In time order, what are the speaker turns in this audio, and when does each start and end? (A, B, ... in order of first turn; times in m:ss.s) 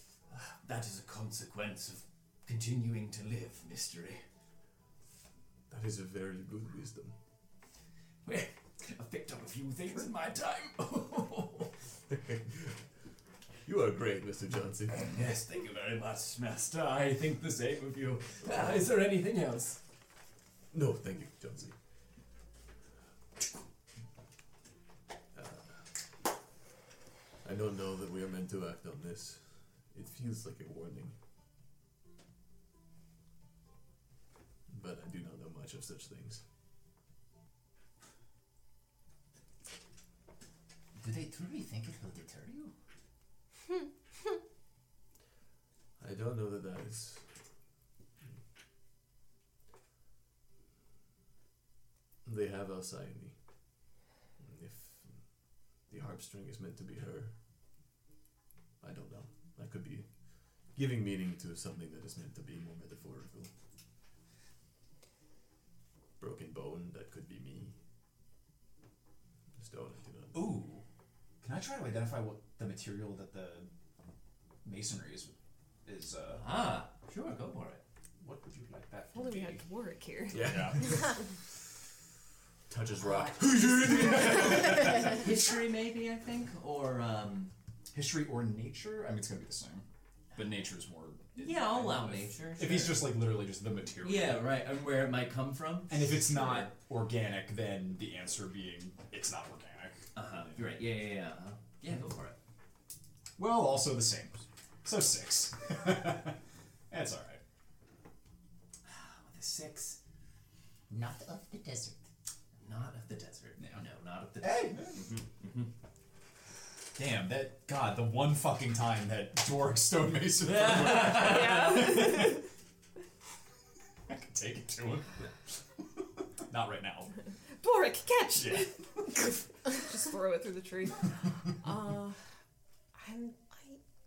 0:00.3-0:04.2 A
0:05.7-0:07.2 B
0:08.2-0:11.7 A
0:12.1-0:12.8 B
0:13.6-0:15.1 B
0:15.0-0:19.8 A
0:20.7-0:21.8 B
0:25.3-0:25.7 B
0:27.4-0:31.1 B
0:34.7-0:36.4 B
0:41.0-0:42.7 C
0:46.0-0:47.3 B
0:52.2-0:53.4 B
0:54.4-0:55.2 B
0:55.9-0:57.3 B
0:58.8-1:00.1 B
1:00.7-1:03.5 B
1:06.2-1:07.8 B
1:09.6-1:10.5 B
1:10.3-1:10.8 D
1:11.4-1:13.7 D
1:14.6-1:16.4 D
1:16.4-1:17.8 A
1:18.2-1:19.6 D
1:19.1-1:21.2 E
1:20.3-1:21.2 B
1:20.3-1:21.0 D
1:22.7-1:25.0 B
1:23.6-1:27.5 A
1:23.8-1:25.2 D
1:27.9-1:34.5 D
1:31.4-1:33.2 A
1:34.0-1:36.7 A
1:35.9-1:40.1 D
1:40.2-1:42.4 A
1:43.4-1:46.4 D
1:46.9-1:47.4 D
1:48.8-1:50.0 A
1:50.9-1:52.0 C
1:52.6-1:55.7 A
1:53.6-1:53.8 D
1:54.4-1:55.1 D
1:57.0-2:02.0 D
2:00.4-2:01.8 A
2:01.1-2:02.4 E
2:04.1-2:05.2 D
2:05.8-2:07.2 D
2:07.6-2:12.2 E
2:08.3-2:08.8 D
2:12.9-2:13.8 E